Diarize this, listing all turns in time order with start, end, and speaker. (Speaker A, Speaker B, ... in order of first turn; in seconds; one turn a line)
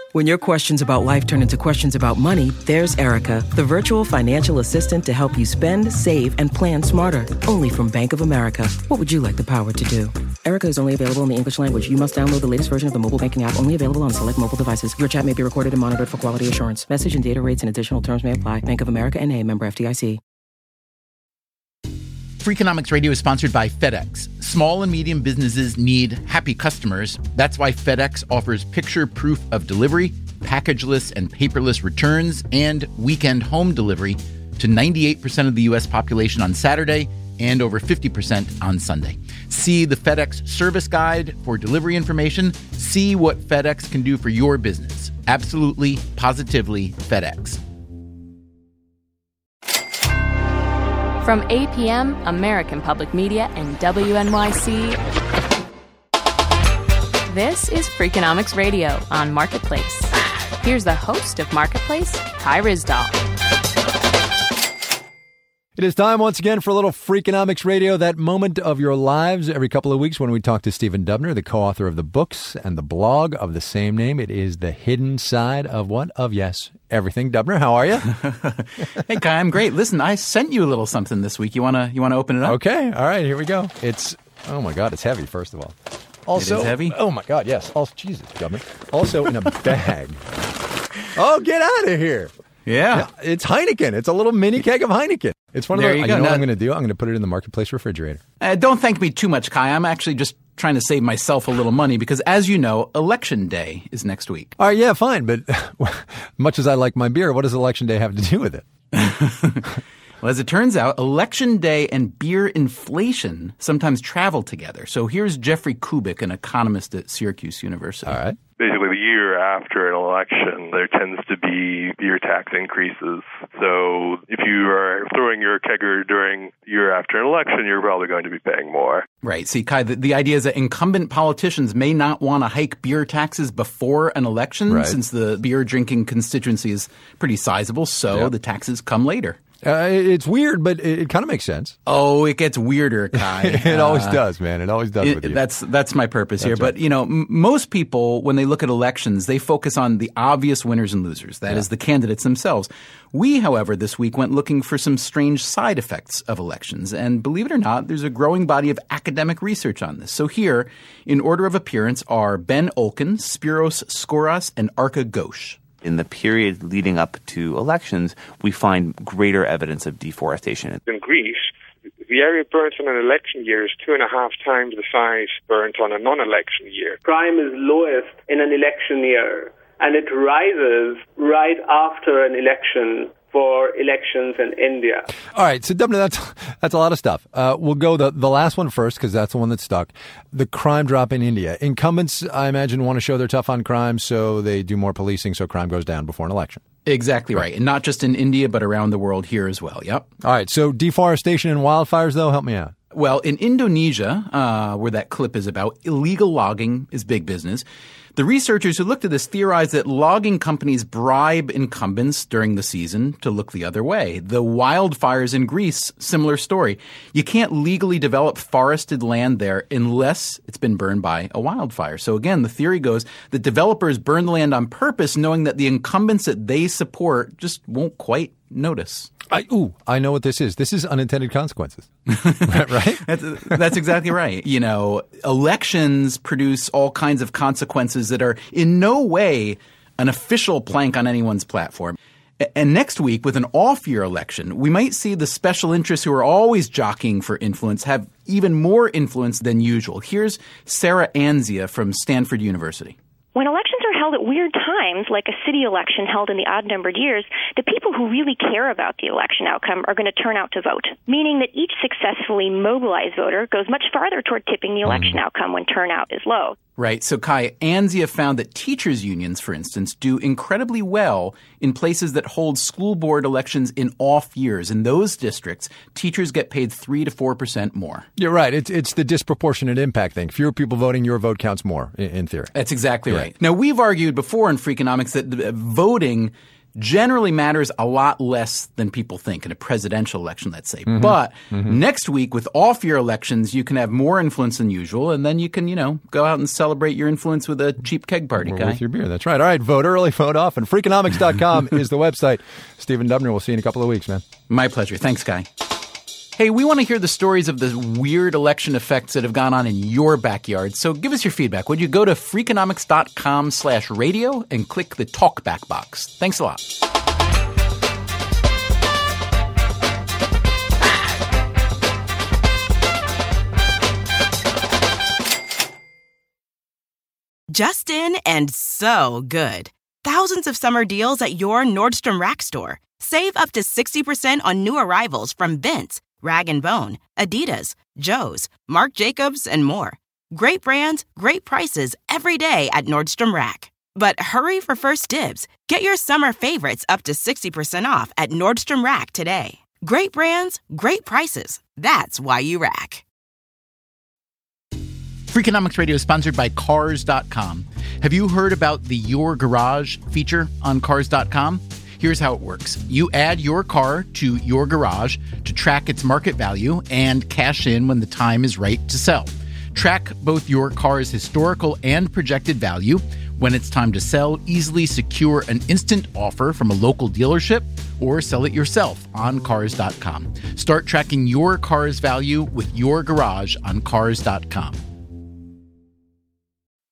Speaker A: 0.1-20.2
Speaker B: 22.4-47.6
Speaker C: 51.2-55.0
Speaker C: 57.3-60.1
Speaker C: 60.6-63.1
Speaker D: 65.8-78.1
Speaker B: 78.0-82.6
Speaker D: 82.4-85.7
Speaker D: 86.2-90.2
Speaker B: 86.4-87.0
Speaker D: 91.2-92.3
Speaker B: 92.6-93.1
Speaker D: 92.9-98.2
Speaker B: 95.7-96.5
Speaker B: 98.4-104.5
Speaker D: 104.6-108.6
Speaker B: 108.9-109.7
Speaker B: 110.2-118.2
Speaker D: 118.1-118.4
Speaker E: 118.6-129.0
Speaker B: 129.2-139.4
Speaker D: 134.7-135.0
Speaker D: 139.6-141.8
Speaker B: 141.8-144.2
Speaker D: 143.1-145.4
Speaker B: 145.0-165.6
Speaker D: 146.4-146.7
Speaker F: 165.9-170.8
Speaker G: 170.8-171.5
Speaker G: 172.0-177.0
Speaker H: 177.0-185.1
Speaker D: 185.3-196.6
Speaker B: 196.8-200.1
Speaker D: 200.2-202.7
Speaker B: 202.9-229.1
Speaker D: 229.3-231.9
Speaker B: 232.1-253.0
Speaker D: 232.4-233.0
Speaker I: 253.3-266.5
Speaker B: 266.8-278.1
Speaker D: 278.2-282.5
Speaker B: 282.5-298.8
Speaker D: 290.9-291.8
Speaker D: 298.4-304.2
Speaker B: 304.5-305.5
Speaker B: 306.4-316.6
Speaker J: 327.5-353.0
Speaker B: 355.3-384.8